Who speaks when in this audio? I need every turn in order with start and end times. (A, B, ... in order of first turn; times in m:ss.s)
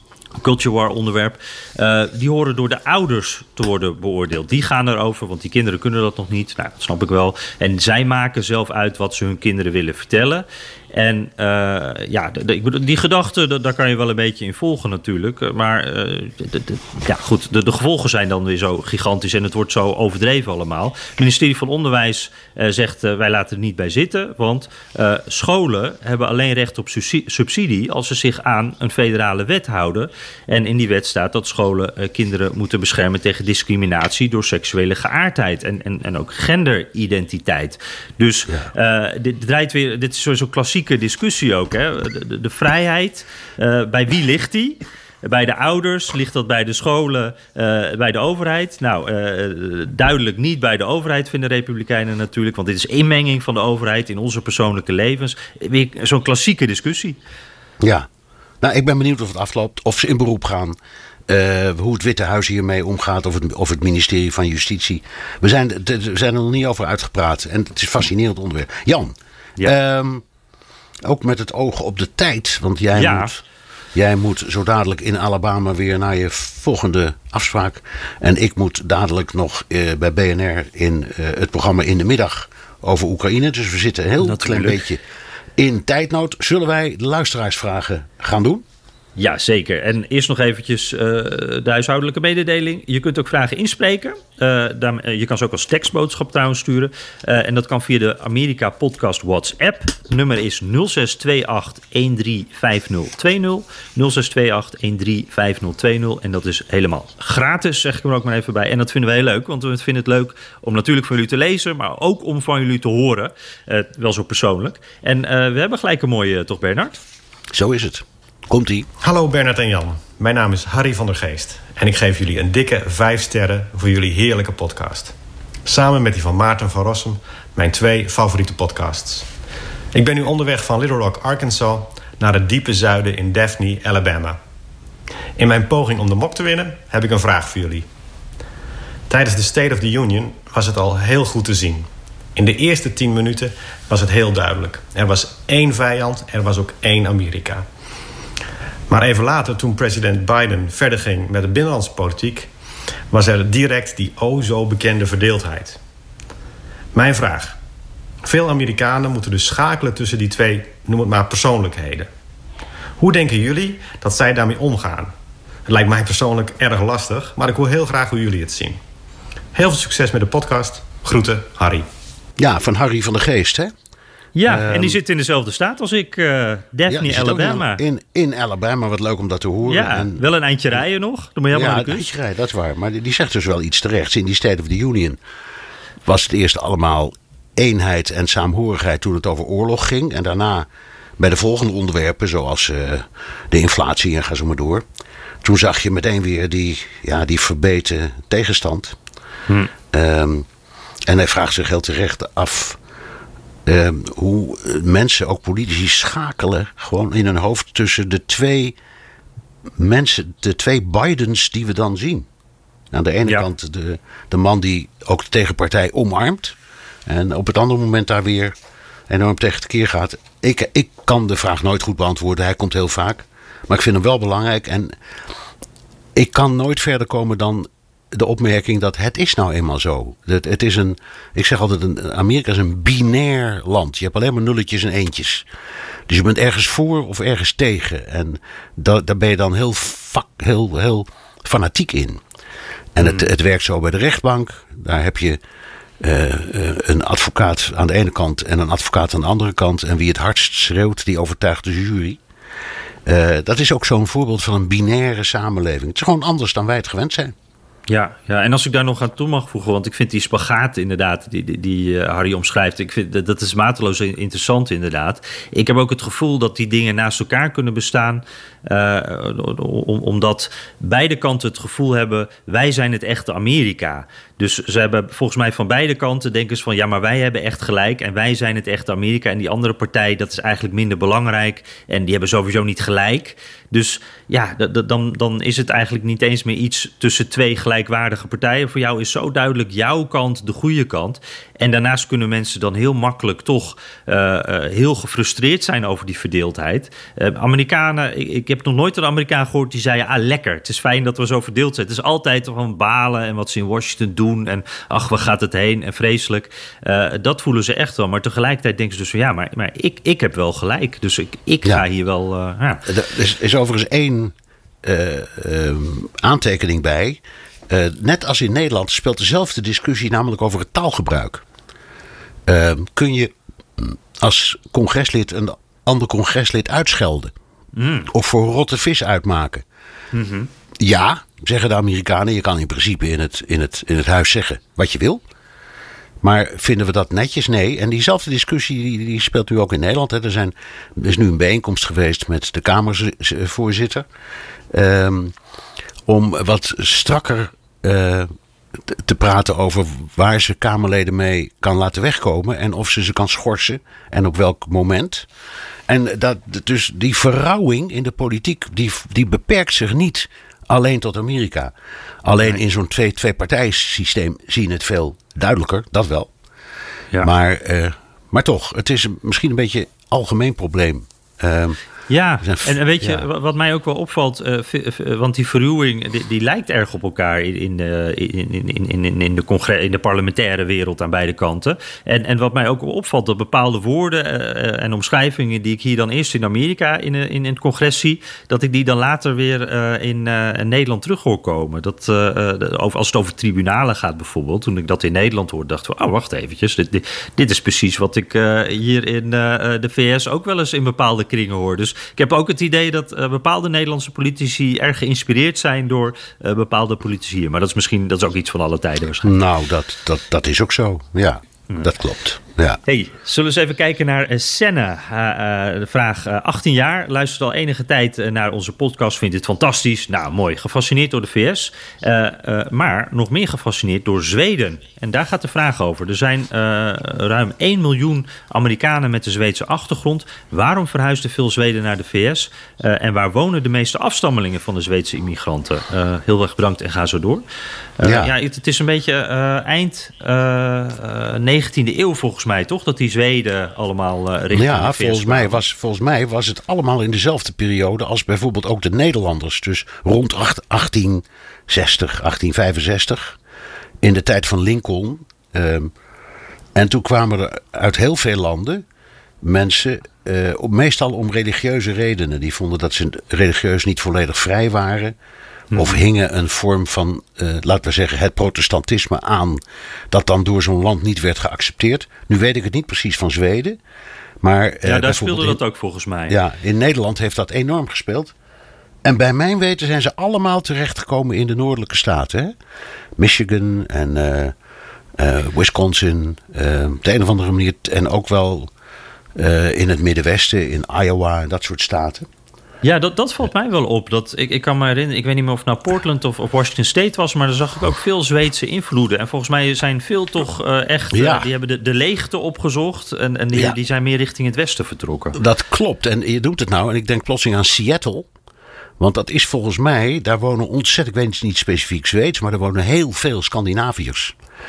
0:00.4-0:57.2 A
0:57.8-0:58.1 B
0:58.6-1:00.8 B
1:01.3-1:10.2 B
1:11.0-1:13.4 B
1:12.9-1:13.3 A
1:14.0-1:25.0 B
1:24.2-1:24.8 A
1:25.6-1:28.6 B
1:29.2-1:57.0 A
1:57.5-1:58.9 B
1:59.0-2:05.1 C
2:05.7-2:09.3 C
2:09.9-2:14.4 C
2:15.4-2:17.9 C
2:19.1-2:27.6 C
2:28.9-2:32.5 C
2:33.1-2:35.8 C
2:36.9-2:37.6 C
2:38.2-2:42.1 C
2:43.0-2:45.1 C
2:45.7-2:48.8 C
2:49.5-2:51.9 C
2:52.4-2:53.7 B
2:54.4-2:57.8 A
2:54.5-2:55.0 B
2:56.9-3:00.2 B
2:59.7-3:02.1 A
3:01.5-3:05.2 B
3:06.0-3:10.7 B
3:11.2-3:14.8 B
3:15.4-3:19.0 B
3:19.9-3:20.5 B
3:21.1-3:22.8 B
3:23.7-3:28.8 B
3:29.8-3:32.3 B
3:32.9-3:36.6 B
3:37.1-3:38.6 B
3:39.1-3:45.0 B
3:46.1-3:55.5 B
3:56.1-4:02.2 B
4:03.0-4:05.4 B
4:03.0-4:03.3 A
4:06.0-4:12.2 B
4:13.1-4:17.4 B
4:17.9-5:12.9 A
5:12.9-5:21.4 B
5:22.5-5:27.3 B
5:27.8-5:28.1 A
5:28.1-5:29.6 B
5:30.1-5:30.5 A
5:30.8-5:35.2 B
5:36.2-5:44.1 B
5:44.7-5:45.4 B
5:46.1-5:48.3 B
5:48.8-5:55.3 B
5:55.9-6:06.3 B
6:07.2-6:11.8 B
6:12.1-6:49.4 A
6:12.4-6:13.2 B
6:49.2-6:52.8 B
6:52.9-7:17.4 A
7:18.0-7:25.6 A
7:18.0-7:18.3 B
7:24.5-7:33.4 B
7:34.0-7:35.9 B
7:36.7-7:38.8 B
7:39.4-7:45.2 B
7:45.7-7:46.0 A
7:45.7-7:53.8 B
7:54.4-7:55.6 B
7:54.8-7:56.4 A
7:56.3-7:58.3 B
7:59.0-8:02.6 B
8:03.2-8:04.6 B
8:05.2-8:08.7 B
8:09.4-8:12.3 B
8:12.8-8:25.4 A
8:21.1-8:21.5 B
8:25.4-8:28.3 B
8:29.0-8:34.4 B